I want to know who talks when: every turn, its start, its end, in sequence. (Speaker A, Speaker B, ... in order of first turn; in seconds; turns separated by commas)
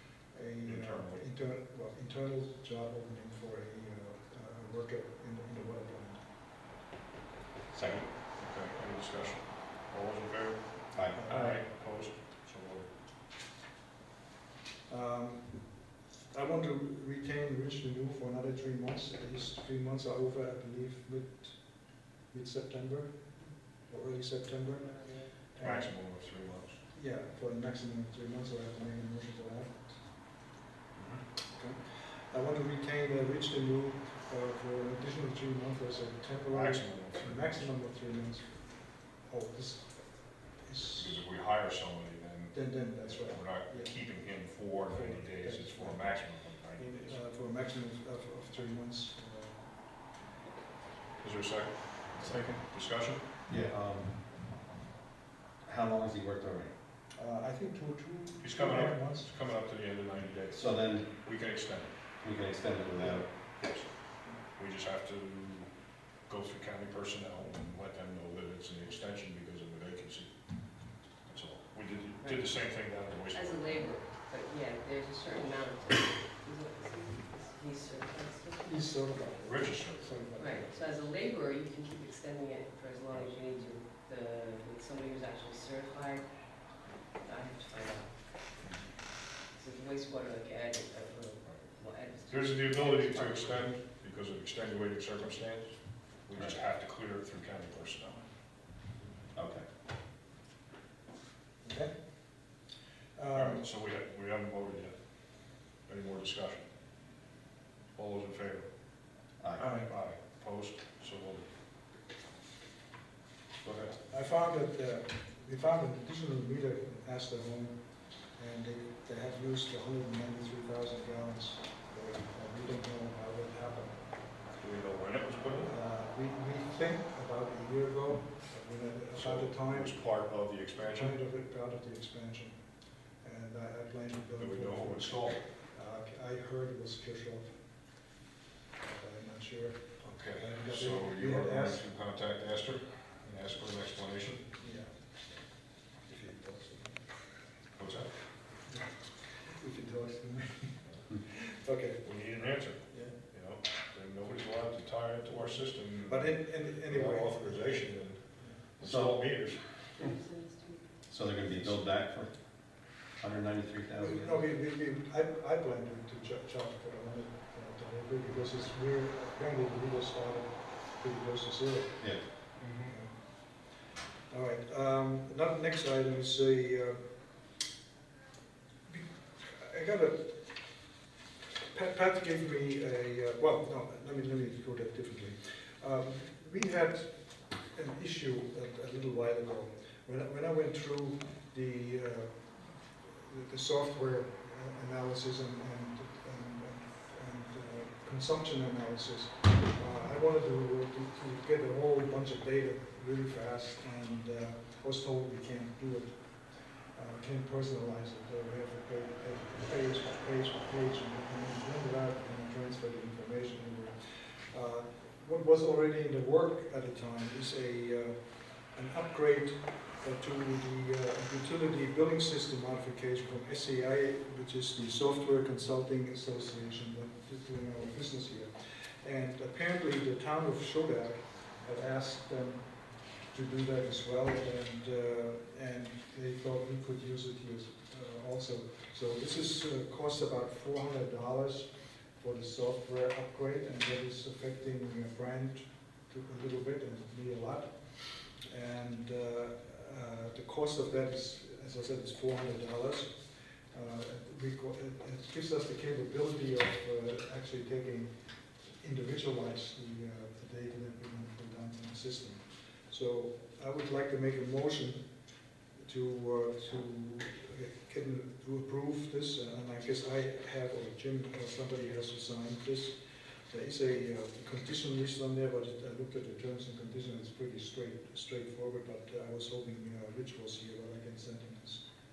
Speaker A: 0.3-6.2, Speaker B: 0.7-1.3, Speaker C: 7.7-8.1, Speaker B: 7.8-12.9, Speaker C: 10.9-11.2, Speaker A: 11.2-11.6, Speaker A: 14.9-21.6, Speaker A: 22.3-23.1, Speaker A: 23.9-25.9, Speaker D: 24.8-25.3, Speaker B: 25.6-26.8, Speaker A: 26.9-30.0, Speaker B: 31.0-31.2, Speaker A: 31.5-41.2, Speaker B: 36.5-37.7, Speaker B: 41.0-47.2, Speaker A: 42.5-49.8, Speaker B: 51.2-53.3, Speaker C: 53.5-54.4, Speaker C: 55.6-56.7, Speaker A: 57.1-59.4, Speaker B: 58.4-61.9, Speaker C: 60.5-61.1, Speaker C: 62.2-63.3, Speaker B: 62.9-70.4, Speaker B: 71.3-73.9, Speaker D: 72.2-79.0, Speaker A: 78.7-80.8, Speaker B: 79.4-80.3, Speaker D: 80.4-86.3, Speaker D: 87.2-88.2, Speaker D: 89.5-93.7, Speaker B: 92.3-98.3, Speaker C: 99.3-99.7, Speaker A: 101.6-101.9, Speaker A: 103.2-103.6, Speaker B: 103.3-105.0, Speaker B: 105.9-106.7, Speaker B: 108.0-108.7, Speaker C: 109.4-109.7, Speaker A: 109.6-109.9, Speaker B: 109.6-111.5, Speaker C: 113.6-114.0, Speaker A: 114.1-117.8, Speaker A: 118.4-124.1, Speaker B: 124.6-125.7, Speaker A: 125.6-130.0, Speaker B: 129.2-131.2, Speaker A: 130.9-132.6, Speaker A: 133.2-137.6, Speaker B: 134.4-135.4, Speaker A: 138.8-141.8, Speaker B: 140.0-144.5, Speaker A: 144.6-144.9, Speaker A: 146.1-147.2, Speaker B: 147.8-148.1, Speaker A: 148.7-152.0, Speaker B: 152.0-159.6, Speaker A: 152.9-153.2, Speaker A: 156.1-158.6, Speaker C: 158.8-159.2, Speaker D: 160.0-160.9, Speaker C: 161.1-162.3, Speaker C: 163.2-164.4, Speaker A: 164.0-177.0, Speaker C: 172.0-172.6, Speaker B: 172.6-172.9, Speaker A: 178.9-180.5, Speaker A: 181.7-218.2, Speaker A: 218.7-232.7, Speaker A: 233.2-258.1, Speaker A: 258.8-265.1, Speaker A: 265.8-273.0, Speaker A: 273.5-281.9